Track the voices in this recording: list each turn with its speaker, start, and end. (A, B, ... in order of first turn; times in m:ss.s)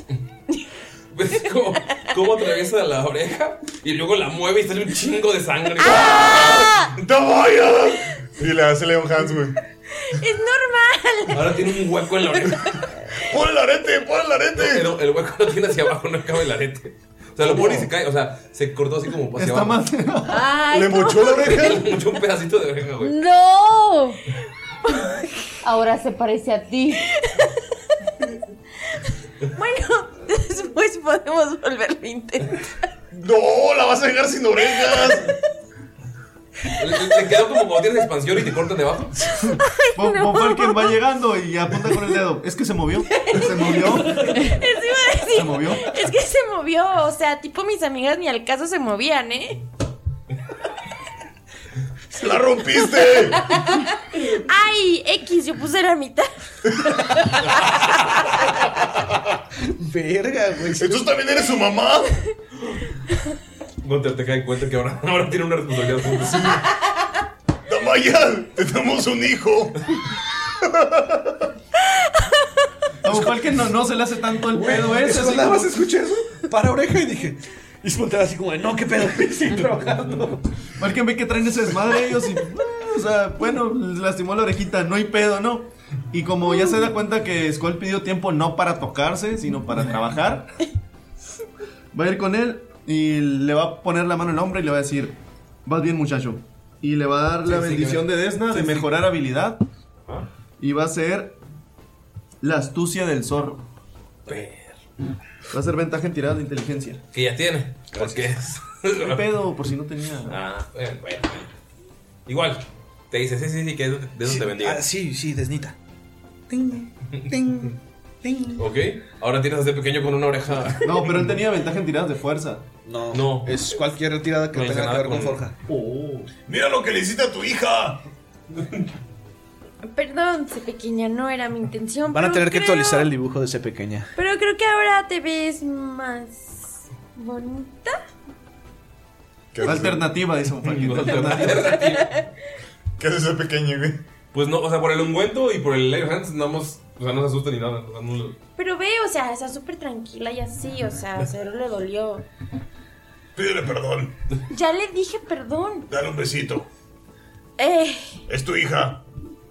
0:01.1-0:06.6 A
0:05.8-0:06.9 B
0:05.8-0:09.6 C
0:10.0-0:11.6 B
0:11.3-0:12.8 A
0:12.4-0:13.2 B
0:13.2-0:14.9 C
0:14.6-0:19.8 A
0:17.4-0:17.8 D
0:19.4-0:20.5 D
0:20.2-0:21.7 B
0:20.7-0:21.9 C
0:21.4-0:23.2 A
0:23.0-0:24.2 E
0:24.8-0:25.5 B
0:25.6-0:27.0 E
0:27.1-0:27.6 B
0:29.5-0:32.7 B
0:33.1-0:35.3 C
0:36.8-0:39.2 A
0:39.4-0:44.5 D
0:39.6-0:41.0 B
0:43.2-0:49.6 B
0:45.3-0:45.9 D
0:52.1-0:53.5 C
0:52.9-0:56.3 B
0:57.0-0:57.6 B
0:59.8-1:01.1 F
1:00.7-1:02.2 C
1:02.6-1:02.9 A
1:03.8-1:06.7 A
1:07.7-1:11.5 C
1:11.9-1:12.4 B
1:13.0-1:15.7 D
1:14.5-1:20.5 F
1:20.8-1:30.5 D
1:31.9-1:35.1 D
1:35.6-1:39.6 D
1:37.4-1:38.9 A
1:40.6-1:41.4 D
1:42.4-1:43.6 D
1:44.3-1:44.8 A
1:45.5-1:47.0 D
1:47.1-1:49.2 A
1:47.9-1:48.3 F
1:49.0-1:50.4 D
1:50.3-1:51.5 A
1:52.3-1:54.8 A
1:54.2-1:55.8 F
1:56.5-1:58.6 F
1:58.6-2:00.9 A
2:00.8-2:02.7 D
2:02.8-2:05.6 F
2:03.1-2:03.5 A
2:04.5-2:05.4 A
2:05.7-2:06.3 D
2:06.5-2:08.0 C
2:08.6-2:08.8 A
2:09.9-2:13.1 B
2:12.1-2:14.1 F
2:14.2-2:18.0 B
2:19.5-2:20.1 C
2:19.6-2:21.8 D
2:20.6-2:22.1 A
2:21.8-2:22.3 B
2:23.0-2:24.0 C
2:24.3-2:28.4 A
2:28.6-2:32.2 B
2:33.3-2:34.1 C
2:34.5-2:35.9 B
2:35.9-2:36.7 C
2:37.6-2:38.2 B
2:38.3-2:39.0 C